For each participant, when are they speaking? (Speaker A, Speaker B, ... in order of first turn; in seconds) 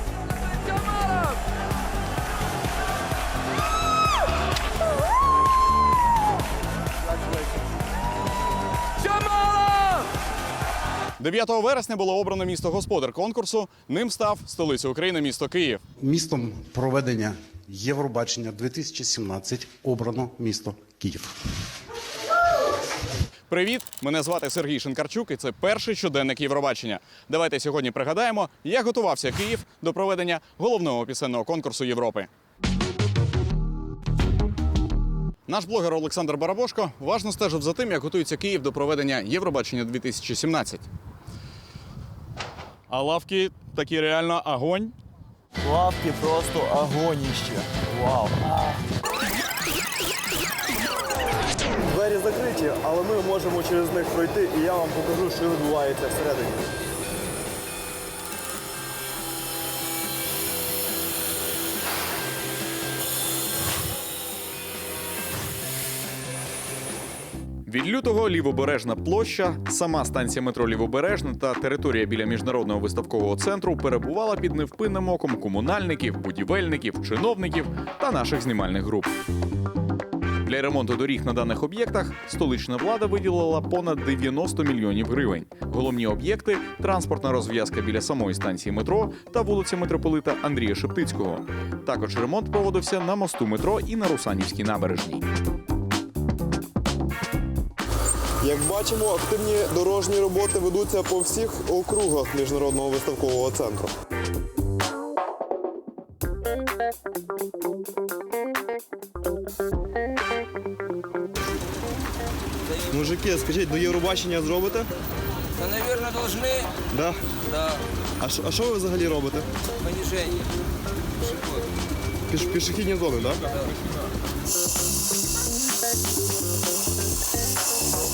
Speaker A: 11.2-15.8, 23.5-32.3, 35.5-40.9, 42.9-44.9, 67.7-79.1, 80.5-95.2
Speaker B: 16.0-21.3
Speaker C: 45.6-48.4, 51.9-56.7, 98.4-103.9, 112.9-114.9, 116.9-117.3, 118.2-119.5, 122.3-123.4
Speaker D: 115.6-116.7, 119.8-120.4, 121.2-121.6